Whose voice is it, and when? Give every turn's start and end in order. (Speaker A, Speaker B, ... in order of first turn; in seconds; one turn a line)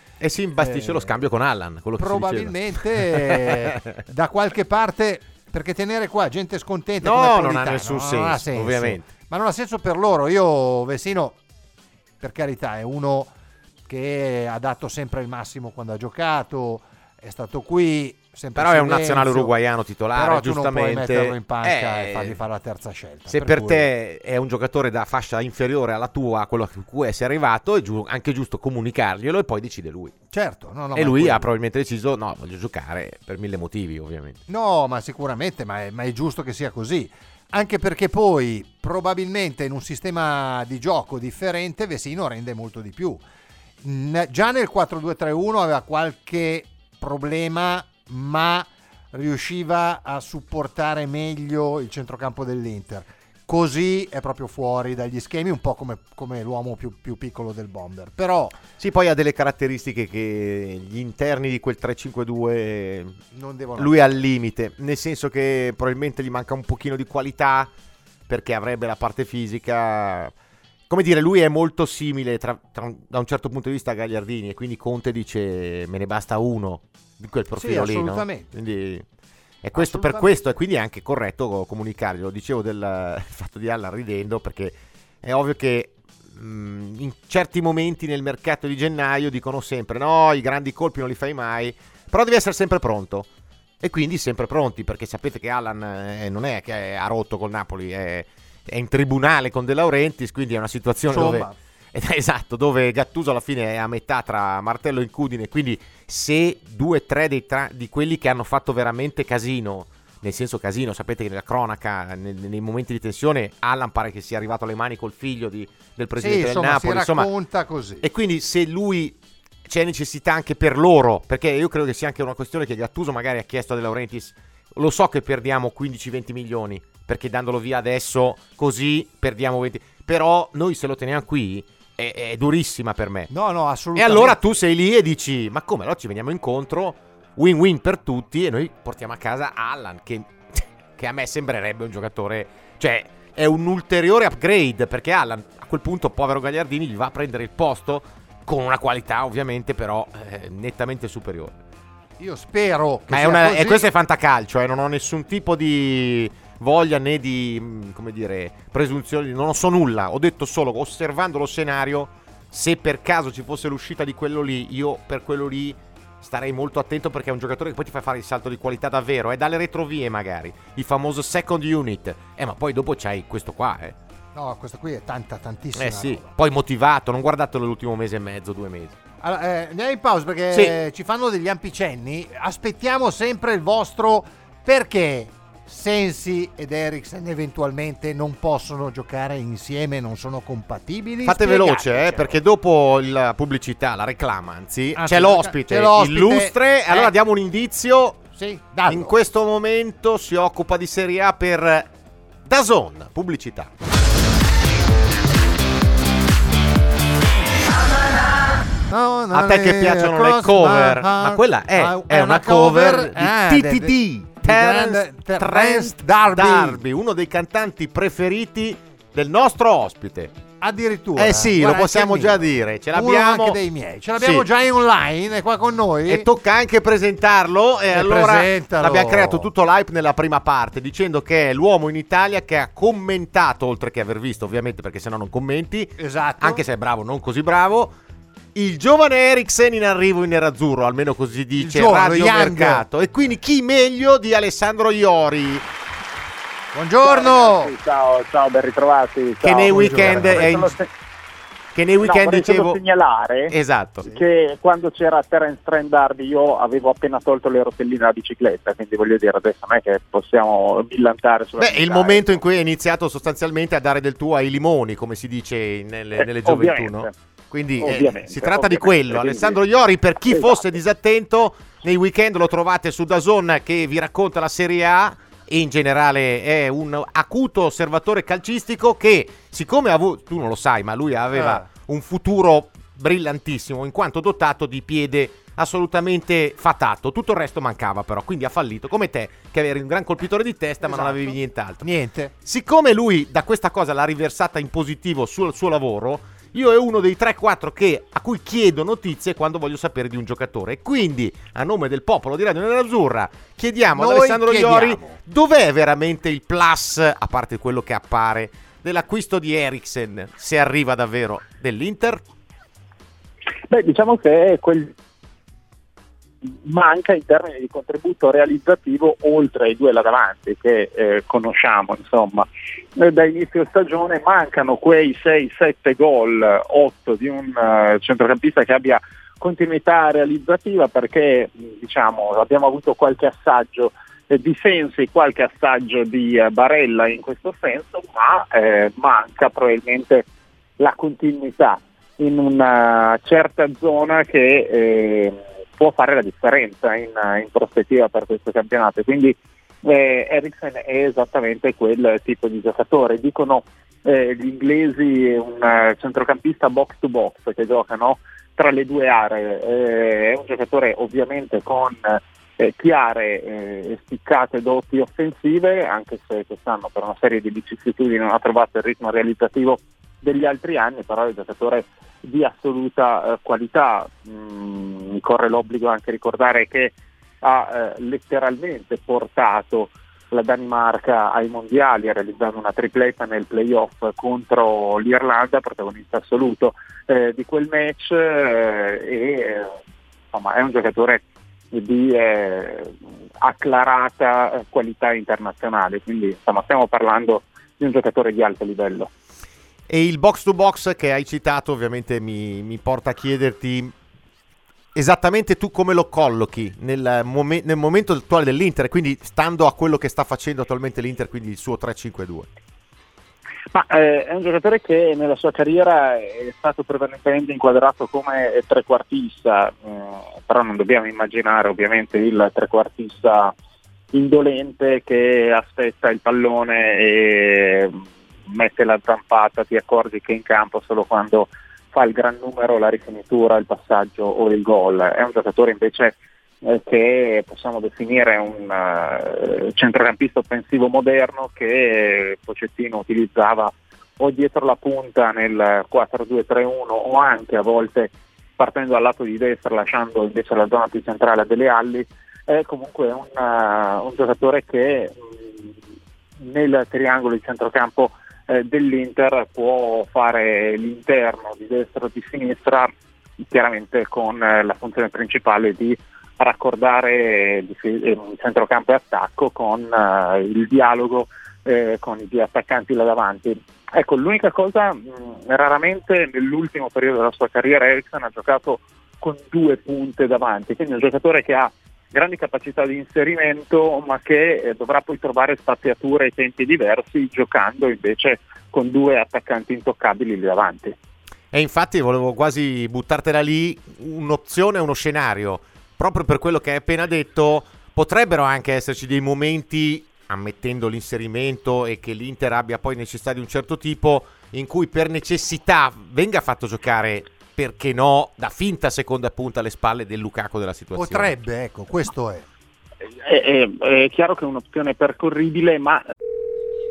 Speaker A: 0.2-3.9
Speaker B: 0.6-1.1
Speaker B: 2.0-11.4
Speaker A: 7.0-9.1
Speaker B: 12.2-13.3
Speaker B: 13.9-19.5
Speaker A: 18.5-22.4
Speaker B: 20.1-23.9
Speaker A: 23.3-30.1
Speaker B: 30.3-31.4
Speaker A: 30.9-34.4
Speaker B: 34.5-43.2
Speaker B: 43.8-58.5
Speaker A: 58.8-63.2
Speaker B: 63.3-64.2
Speaker A: 63.8-67.7
Speaker A: 68.3-70.3
Speaker A: 70.9-79.0
Speaker B: 77.5-78.5
Speaker A: 79.6-93.3
Speaker B: 79.7-80.3
Speaker A: 93.8-117.3
Speaker B: 101.1-101.5
Speaker B: 116.2-118.0
Speaker A: 118.0-133.3
Speaker B: 133.3-134.4
Speaker A: 133.9-151.6
Speaker B: 152.2-153.9
Speaker A: 153.1-173.9
Speaker B: 174.3-176.3
Speaker A: 175.7-179.0
Speaker B: 179.2-192.4
Speaker A: 191.2-198.2
Speaker B: 194.9-197.1
Speaker B: 198.3-199.2
Speaker A: 198.9-201.9
Speaker A: 202.4-203.7
Speaker B: 208.9-216.8
Speaker A: 209.3-220.3
Speaker B: 220.6-226.3
Speaker A: 221.2-223.6
Speaker A: 224.2-224.5
Speaker A: 226.1-237.9
Speaker B: 227.9-229.5
Speaker B: 236.0-236.6
Speaker A: 238.5-245.7
Speaker B: 241.6-242.8
Speaker B: 246.7-247.7
Speaker C: 247.0-250.9
Speaker A: 249.4-250.7
Speaker B: 249.7-250.6
Speaker A: 251.7-252.8
Speaker C: 252.0-253.5
Speaker A: 253.5-254.1
Speaker C: 254.1-262.4
Speaker A: 261.6-291.8
Speaker C: 266.2-267.1
Speaker C: 267.8-269.6
Speaker C: 270.3-270.6
Speaker B: 281.3-281.6
Speaker B: 290.8-292.3
Speaker A: 292.4-312.2
Speaker B: 303.9-305.2
Speaker C: 313.7-314.9
Speaker C: 316.4-340.2
Speaker C: 340.8-389.7
Speaker C: 390.3-399.1
Speaker A: 399.9-403.9
Speaker A: 404.9-412.5
Speaker C: 413.7-423.5
Speaker C: 424.1-455.7
Speaker C: 456.4-462.9
Speaker C: 463.5-490.9
Speaker A: 491.5-511.3
Speaker B: 510.9-512.5
Speaker C: 513.2-516.0